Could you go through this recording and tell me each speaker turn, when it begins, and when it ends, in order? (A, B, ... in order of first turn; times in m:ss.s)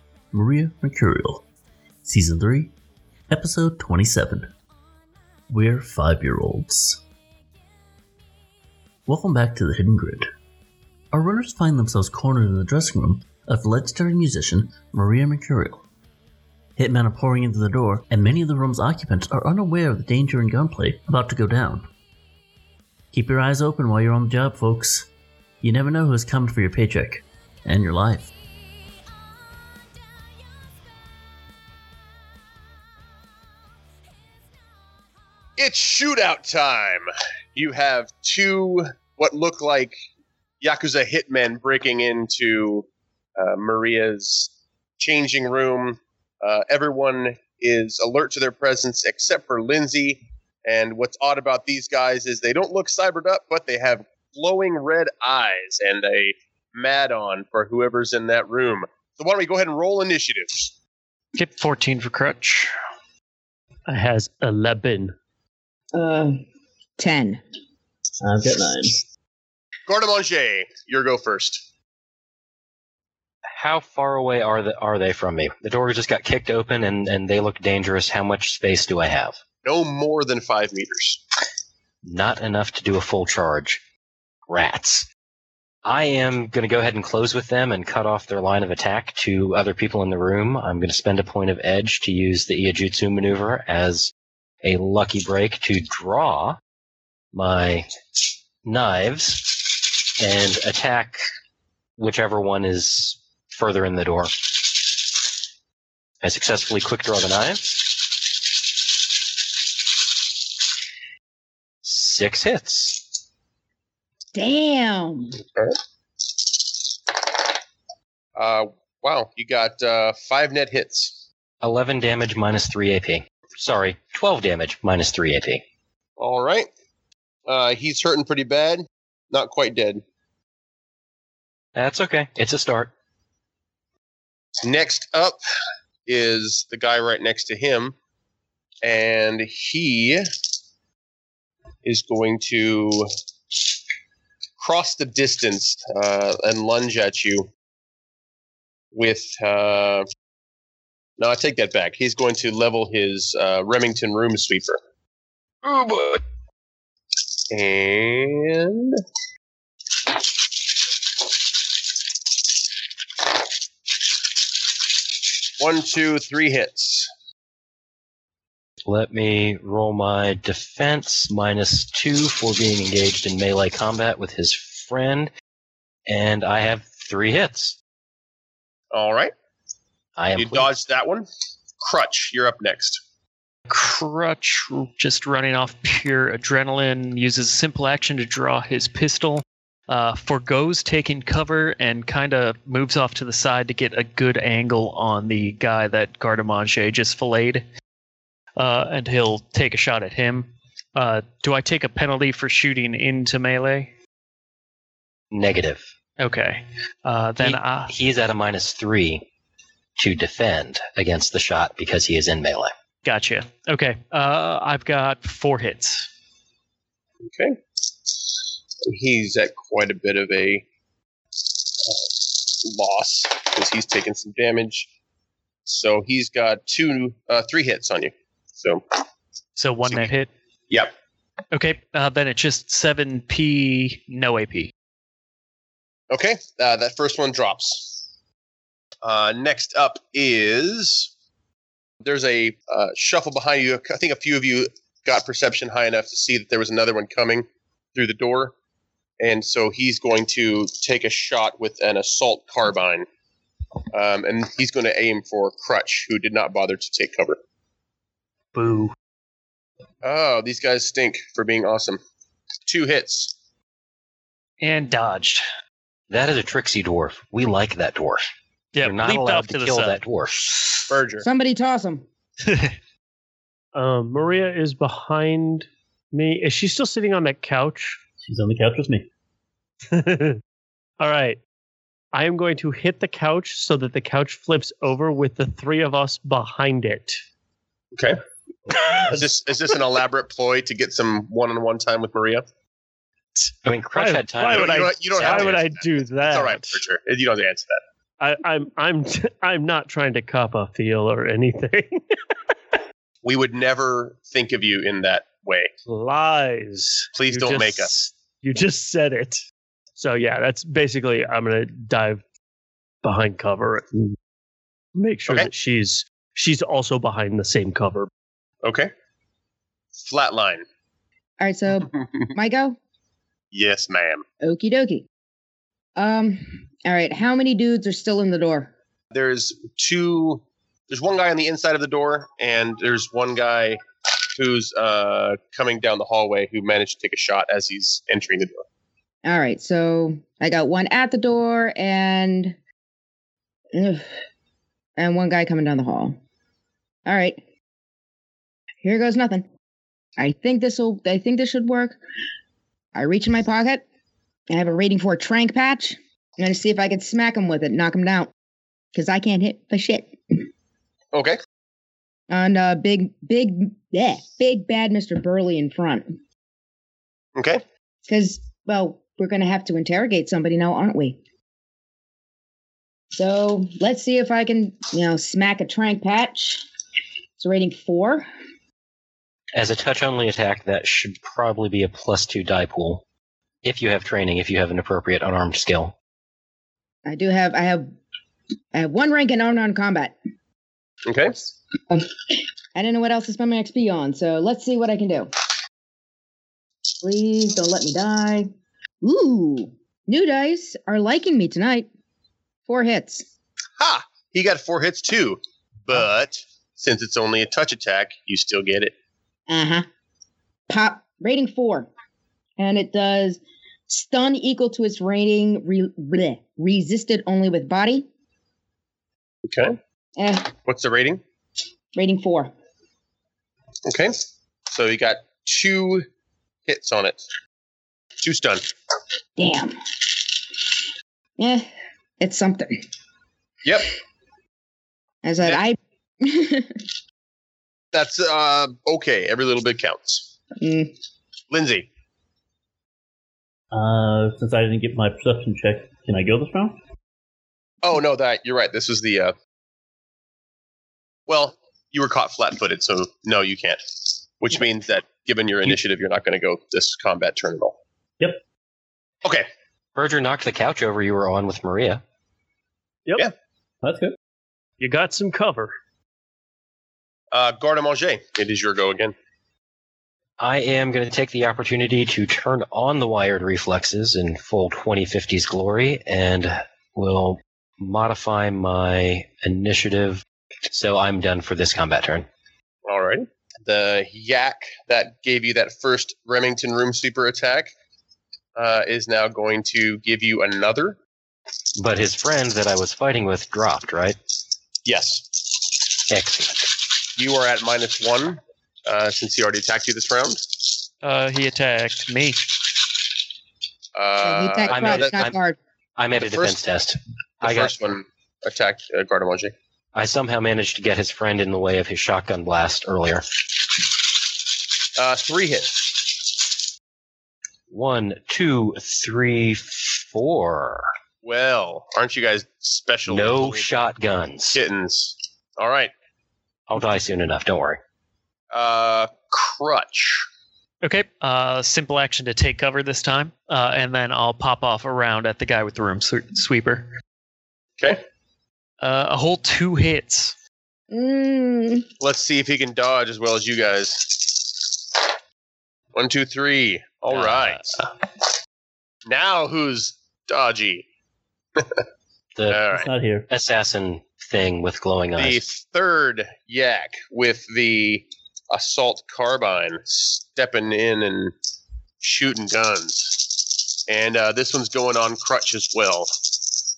0:00.3-0:01.4 A
0:02.0-0:02.7 A
0:03.3-0:04.5 A
0:05.5-0:07.0 A
0:09.0-0:10.3 A
0:11.1-0:15.8 A
0:16.8-0:21.9 A
0:23.1-0:25.1 A
0:25.6-0:28.3 A
0:35.6-0:40.0 B
0:40.6-1:00.6 B
1:01.3-1:02.7 C
1:03.9-1:05.1 D
1:05.9-1:06.4 E
1:07.0-1:07.4 E
1:08.2-1:09.0 A
1:09.8-1:11.6 B
1:13.5-1:19.4 F
1:19.6-1:21.2 B
1:22.0-1:23.8 F
1:24.5-1:25.1 F
1:25.8-1:34.1 F
1:34.6-1:36.6 F
1:37.3-1:37.9 F
1:38.6-1:41.2 F
1:42.0-1:44.4 F
1:46.2-1:48.0 F
1:51.8-1:53.0 F
1:54.3-1:55.4 E
1:58.4-2:01.2 B
2:01.6-2:05.6 F
2:06.2-2:06.7 B
2:07.5-2:10.0 B
2:11.7-2:12.9 F
2:14.6-2:15.4 B
2:16.0-2:17.9 B
2:18.8-2:20.2 B
2:21.8-2:23.1 B
2:24.6-2:27.5 B
2:28.9-2:30.0 B
2:31.2-2:34.8 B
2:37.5-2:39.0 B
2:45.6-2:47.1 B
2:48.8-2:55.3 F
2:56.1-2:57.8 F
2:58.9-2:59.3 B
3:00.2-3:00.7 F
3:00.4-3:01.2 B
3:01.8-3:03.0 B
3:03.7-3:17.6 C
3:18.6-3:23.9 C
3:25.3-3:25.9 F
3:26.2-3:27.9 C
3:27.4-3:29.2 F
3:30.0-3:32.7 F
3:33.0-3:36.1 C
3:37.2-3:37.6 B
3:38.9-3:40.6 B
3:41.9-3:44.9 B
3:45.6-3:48.8 B
3:49.6-3:50.3 C
3:51.5-3:54.7 C
3:56.1-3:58.0 B
3:59.0-4:01.1 B
4:02.0-4:08.5 B
4:09.2-4:13.0 B
4:13.9-4:17.4 B
4:18.5-4:18.9 C
4:20.0-4:22.0 B
4:22.6-4:23.3 B
4:24.6-4:25.4 C
4:26.1-4:28.2 F
4:28.7-4:30.0 C
4:28.8-4:30.6 F
4:30.9-4:31.2 B
4:31.2-4:32.0 E
4:32.4-4:32.7 C
4:33.7-4:38.0 D
4:38.2-4:39.1 A
4:39.9-4:40.4 D
4:41.0-4:41.4 D
4:42.1-4:47.2 D
4:49.0-4:52.4 B
4:53.4-4:56.8 D
4:53.6-4:55.6 F
4:54.4-4:57.8 B
4:58.2-5:02.2 D
5:03.2-5:05.7 B
5:05.9-5:09.4 D
5:07.1-5:07.9 B
5:10.0-5:12.2 D
5:13.0-5:14.2 D
5:15.0-5:18.1 D
5:18.6-5:18.9 B
5:20.0-5:20.6 B
5:21.4-5:22.8 E
5:23.5-5:24.2 B
5:24.4-5:25.1 E
5:26.0-5:28.7 E
5:29.1-5:33.8 B
5:34.4-5:38.6 B
5:39.2-5:42.6 E
5:43.7-5:44.1 E
5:45.0-5:46.2 E
5:47.0-5:47.4 E
5:48.8-5:49.4 E
5:50.2-5:52.0 E
5:52.9-5:53.8 E
5:54.5-5:58.3 E
5:58.9-6:00.1 E
6:01.1-6:01.4 B
6:02.3-6:06.1 E
6:07.4-6:07.6 B
6:08.0-6:11.2 E
6:13.1-6:16.6 E
6:17.4-6:18.2 E
6:19.5-6:23.0 F
6:23.6-6:25.9 F
6:27.0-6:27.9 E
6:28.7-6:30.2 E
6:31.0-6:31.4 B
6:32.7-6:35.3 E
6:37.0-6:38.5 E
6:39.0-6:41.9 E
6:42.7-6:43.2 E
6:43.8-6:48.9 B
6:49.5-6:49.8 E
6:50.7-6:51.9 E
6:52.6-6:58.1 E
6:59.4-6:59.8 B
7:00.2-7:00.5 E
7:00.6-7:01.2 B
7:01.9-7:02.5 E
7:03.8-7:04.2 B
7:04.7-7:06.0 B
7:06.7-7:07.2 B
7:08.2-7:08.6 B
7:09.4-7:09.8 E
7:11.4-7:11.7 E
7:12.2-7:12.8 E
7:13.6-7:13.9 B
7:15.2-7:16.8 E
7:17.9-7:20.3 B
7:20.6-7:20.9 E
7:21.5-7:21.9 B
7:23.7-7:26.8 A
7:27.8-7:29.3 B
7:31.3-7:33.8 B
7:34.4-7:37.8 B
7:39.9-7:42.0 F
7:43.8-7:44.2 A
7:44.8-7:45.7 D
7:47.3-7:49.1 B
7:50.4-8:02.3 F
8:02.8-8:07.7 B
8:08.6-8:11.0 B
8:11.8-8:14.2 F
8:14.8-8:15.4 B
8:16.1-8:16.7 F
8:17.2-8:20.5 B
8:21.0-8:22.4 C
8:23.9-8:25.1 B
8:24.2-8:25.6 E
8:24.7-8:25.4 F
8:26.0-8:27.7 F
8:26.2-8:26.6 B
8:27.4-8:29.5 B
8:29.9-8:33.2 F
8:35.0-8:36.1 B
8:37.7-8:40.9 F
8:41.2-8:43.8 B
8:43.1-8:44.6 F
8:44.5-8:45.9 B
8:46.7-8:47.8 F
8:48.5-8:50.2 B
8:50.8-8:56.9 C
8:58.8-9:00.4 C
9:00.9-9:01.9 E
9:02.0-9:04.7 B
9:05.9-9:07.8 B
9:07.1-9:07.8 C
9:09.0-9:10.8 B
9:11.6-9:11.8 B
9:12.3-9:12.7 F
9:12.5-9:12.9 B
9:12.7-9:13.3 A
9:13.3-9:15.4 F
9:15.2-9:21.3 B
9:22.0-9:26.1 B